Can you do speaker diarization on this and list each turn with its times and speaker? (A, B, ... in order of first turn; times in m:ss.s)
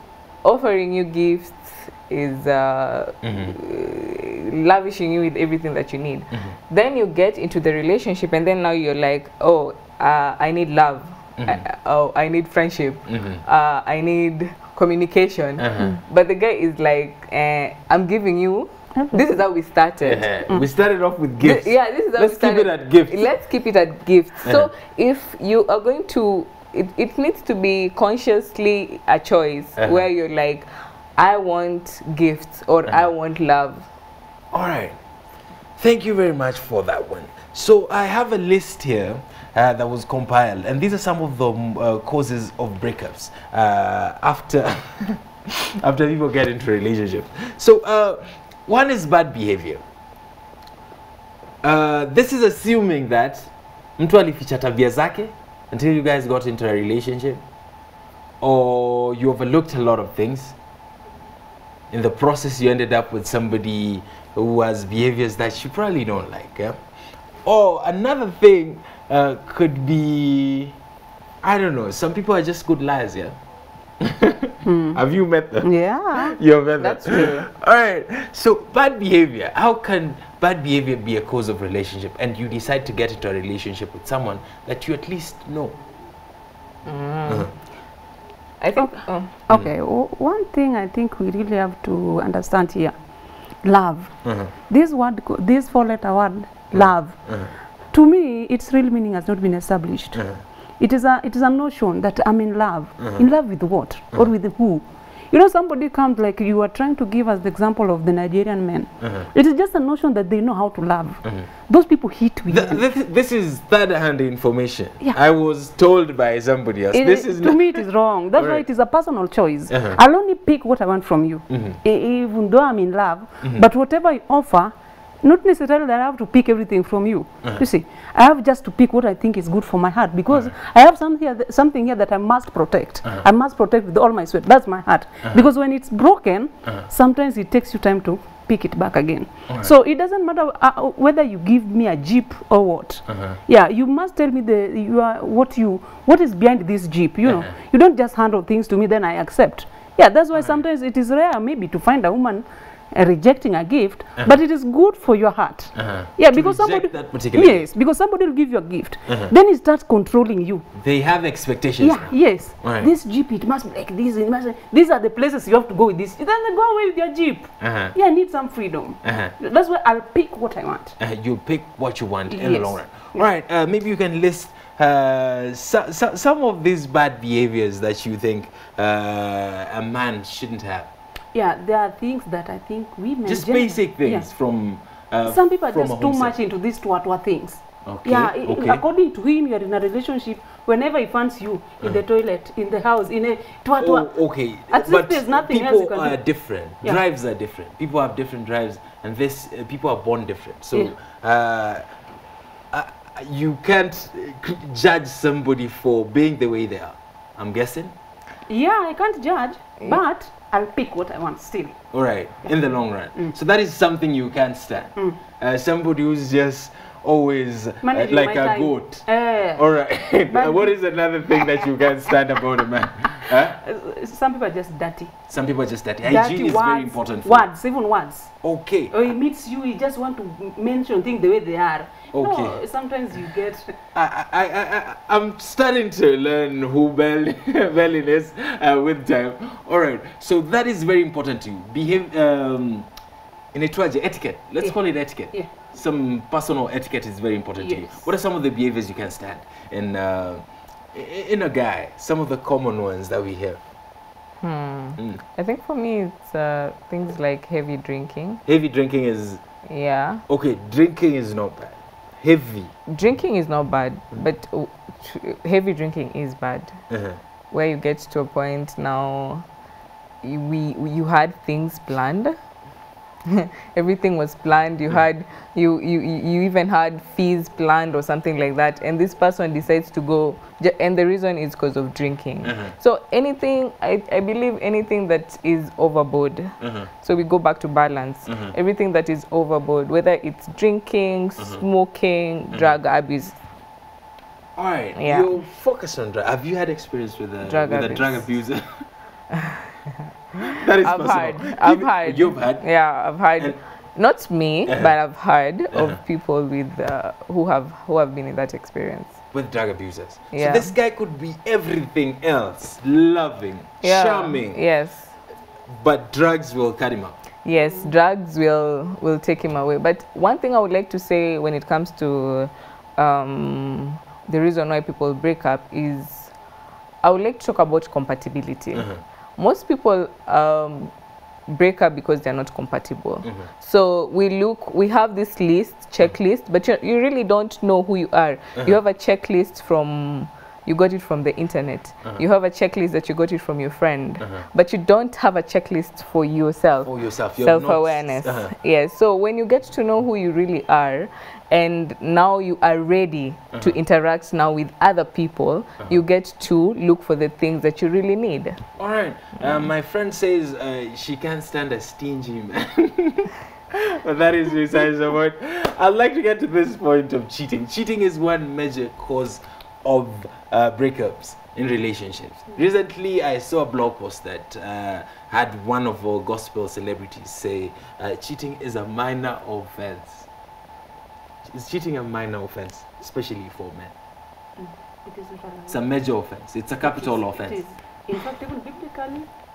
0:00.4-0:20.3 A
0:03.2-0:03.6 B
0:11.4-0:11.6 B
0:13.1-0:13.4 B
0:15.6-0:16.0 B
0:19.0-0:19.4 C
0:20.0-0:23.3 B
0:21.4-0:33.9 A
0:24.4-0:24.7 B
0:29.8-0:30.1 B
0:34.5-0:35.0 B
0:35.8-0:45.2 B
0:45.8-0:49.8 B
0:51.6-0:57.4 B
0:58.4-1:00.6 B
1:01.9-1:06.8 B
1:07.4-1:10.8 B
1:11.4-1:13.4 B
1:14.0-1:25.8 B
1:14.6-1:15.0 C
1:15.6-1:16.4 C
1:16.8-1:17.5 A
1:26.8-1:27.5 A
1:28.6-1:29.3 A
1:28.8-1:32.9 C
1:33.6-1:37.4 C
1:34.2-1:34.5 B
1:36.7-1:37.5 B
1:37.9-1:40.3 C
1:40.1-1:40.4 B
1:40.8-1:52.8 C
1:43.0-1:43.2 B
1:49.0-1:49.3 B
1:52.5-1:57.8 B
1:56.9-2:40.7 C
1:58.4-1:58.6 B
1:59.7-2:00.0 B
2:01.5-2:01.8 B
2:03.4-2:03.7 B
2:23.1-2:23.4 B
2:27.2-2:27.5 B
2:30.3-2:30.6 B
2:35.8-2:37.7 B
2:39.1-2:39.3 B
2:40.7-2:42.9 B
2:41.8-2:51.0 C
2:47.6-2:48.0 B
2:49.0-2:49.4 B
2:51.0-3:00.9 B
2:52.3-2:53.3 C
3:01.3-3:04.3 C
3:03.3-3:06.3 B
3:05.3-3:16.2 C
3:07.8-3:08.8 B
3:13.8-3:21.8 B
3:22.7-3:27.9 B
3:28.5-3:31.8 C
3:31.9-3:43.6 B
3:37.8-3:40.8 C
3:41.3-3:41.6 C
3:43.3-3:45.2 C
3:45.3-3:47.5 B
3:46.0-3:48.4 C
3:48.4-3:49.0 B
3:48.9-3:53.7 C
3:52.1-3:52.6 B
3:53.9-4:02.9 B
4:03.5-4:13.6 B
4:07.6-4:08.1 C
4:14.4-4:18.4 A
4:18.5-4:19.4 B
4:19.7-4:20.2 A
4:20.3-4:22.7 B
4:22.9-4:26.8 A
4:26.9-4:27.2 B
4:27.5-4:29.4 A
4:30.2-4:32.4 A
4:33.3-4:53.4 A
4:42.4-4:42.7 B
4:46.6-4:46.9 B
4:48.3-4:48.6 B
4:51.4-4:51.6 B
4:54.6-4:58.8 B
4:55.0-4:55.3 A
4:57.4-4:58.3 A
5:00.4-5:03.6 B
5:00.8-5:09.2 A
5:04.7-5:05.0 B
5:05.7-5:06.0 B
5:09.3-5:14.6 B
5:10.3-5:10.7 A
5:13.8-5:15.2 A
5:15.7-5:17.2 B
5:17.4-5:26.3 A
5:27.0-5:30.9 A
5:28.7-5:29.0 B
5:31.5-5:58.6 A
5:44.2-5:44.5 B
5:46.8-5:48.5 B
5:58.8-6:20.3 B
5:59.4-5:59.6 A
6:21.4-6:23.9 B
6:24.6-6:25.8 C
6:25.7-6:27.6 B
6:26.8-6:29.3 C